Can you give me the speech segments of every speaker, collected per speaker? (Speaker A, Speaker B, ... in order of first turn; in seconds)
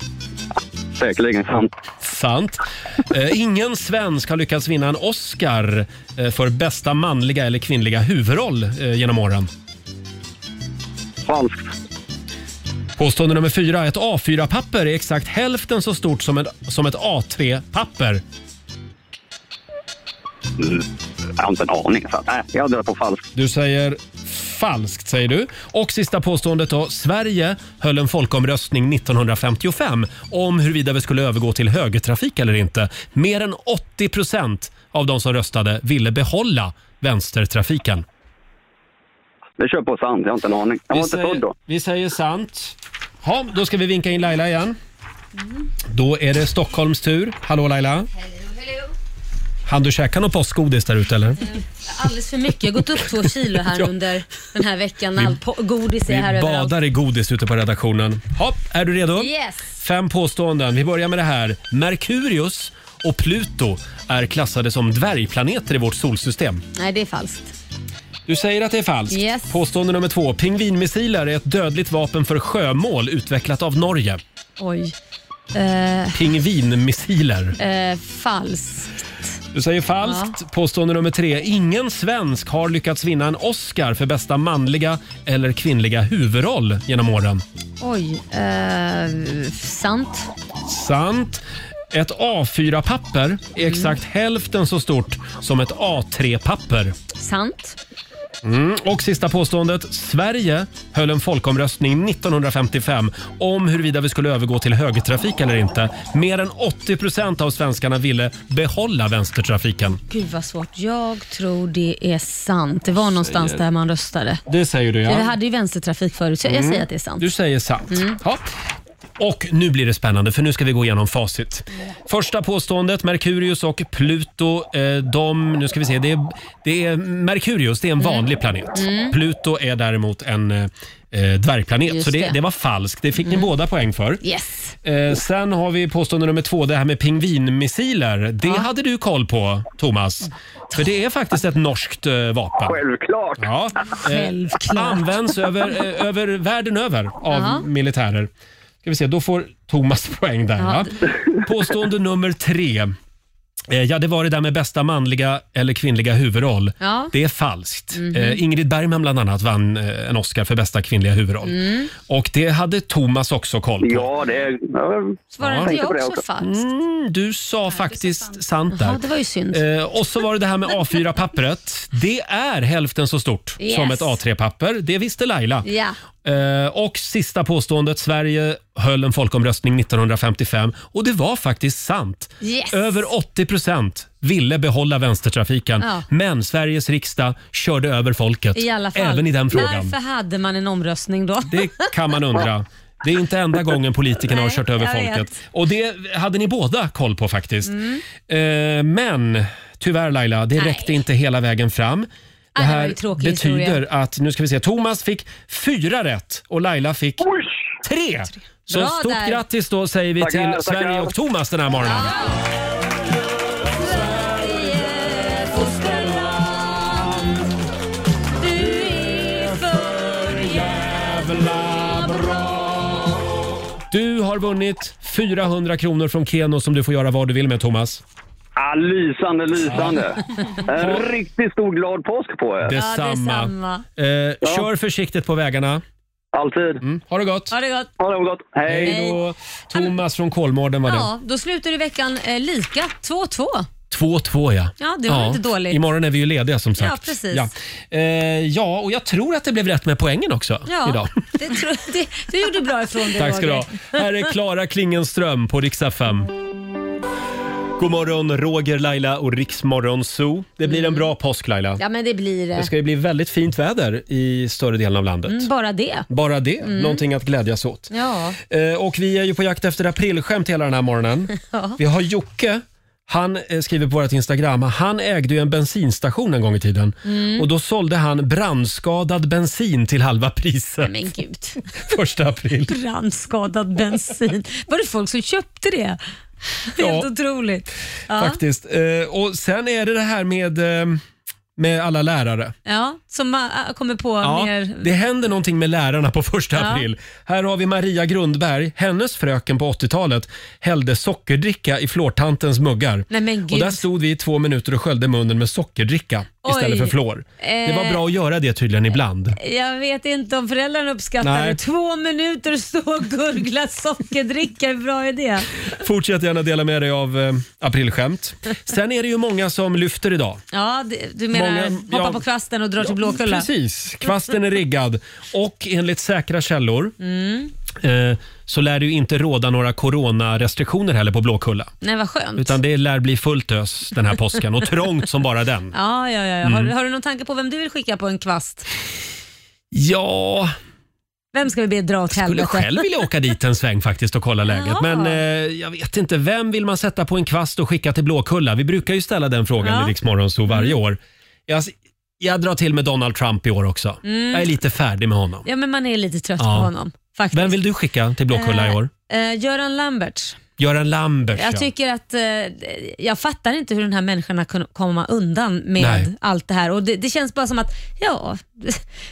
Speaker A: 1.0-1.7, 11.3-11.7, 20.6-20.9, 21.4-23.3, 39.6-41.5, 142.6-143.5, 163.8-166.2, 207.2-207.5, 210.2-211.1, 228.6-232.7, 234.4-234.7, 236.3-236.8, 238.0-239.2
Speaker B: 2.0-9.5, 13.0-18.2, 23.4-38.1, 40.9-44.8, 45.9-48.1, 49.7-51.4, 53.1-54.0, 56.1-66.6, 68.3-74.2, 76.1-77.6, 79.5-87.4, 90.7-97.0, 98.4-110.0, 113.2-113.6, 114.5-115.3, 116.5-118.5, 119.2-134.2, 134.8-142.8, 143.4-148.3, 148.8-152.9, 153.7-164.1, 165.4-165.8, 166.4-175.7, 176.2-189.9, 191.5-207.3, 207.8-212.2, 220.5-223.0, 223.9-228.0, 229.7-230.1, 230.7-231.1, 232.6-235.8, 236.8-237.5, 238.7-241.1, 243.9-251.2, 253.2-256.3, 257.8-261.8, 262.6-265.5, 266.1-280.9, 281.7-282.7, 286.8-287.1, 288.1-291.0, 291.6-292.6, 294.2-309.4, 311.2-311.6, 315.7-320.4, 321.3-322.2, 322.8-326.9, 327.7-331.7, 332.4-335.8, 336.4-336.7, 339.7-340.5, 342.1-355.5, 356.4-356.7, 357.3-358.9, 360.6-361.7, 365.8-366.1
Speaker C: 48.4-48.9, 51.5-56.8, 59.2-59.8, 66.8-67.5, 69.1-69.5, 74.6-75.0, 75.5-76.2, 77.6-79.0, 80.0-80.4, 87.8-90.3, 93.6-94.0, 97.2-97.8, 110.1-114.4, 115.1-117.3, 117.9-118.2, 128.0-129.2, 131.9-132.4, 133.2-133.5, 134.2-134.8, 144.0-145.1, 147.3-147.7, 150.6-150.9, 156.8-157.1, 157.9-158.4, 161.4-161.9, 165.3-166.7, 168.7-169.6, 173.6-174.2, 175.7-176.0, 182.4-183.0, 185.8-186.1, 188.6-191.9, 194.3-195.3, 197.7-198.0, 200.6-201.0, 202.6-203.8, 208.7-209.4, 211.8-212.4, 213.8-217.5, 218.4-222.7, 232.7-233.8, 237.5-237.9, 238.8-239.2, 240.9-243.7, 244.8-245.8, 246.8-247.5, 250.7-254.0, 260.7-261.1, 261.8-262.7, 265.3-266.1, 266.6-267.0, 267.9-268.4, 271.4-271.8, 277.1-277.5, 280.8-281.6, 282.7-286.0, 286.7-288.4, 292.7-294.9, 296.6-296.9, 303.1-303.9, 306.4-308.0, 309.4-315.5, 320.5-323.5, 327.0-327.5, 331.8-332.6, 335.7-338.7, 341.3-342.8, 344.5-345.2, 349.6-349.9, 350.5-350.8, 354.0-354.5, 355.4-357.6, 358.3-360.4, 361.4-368.9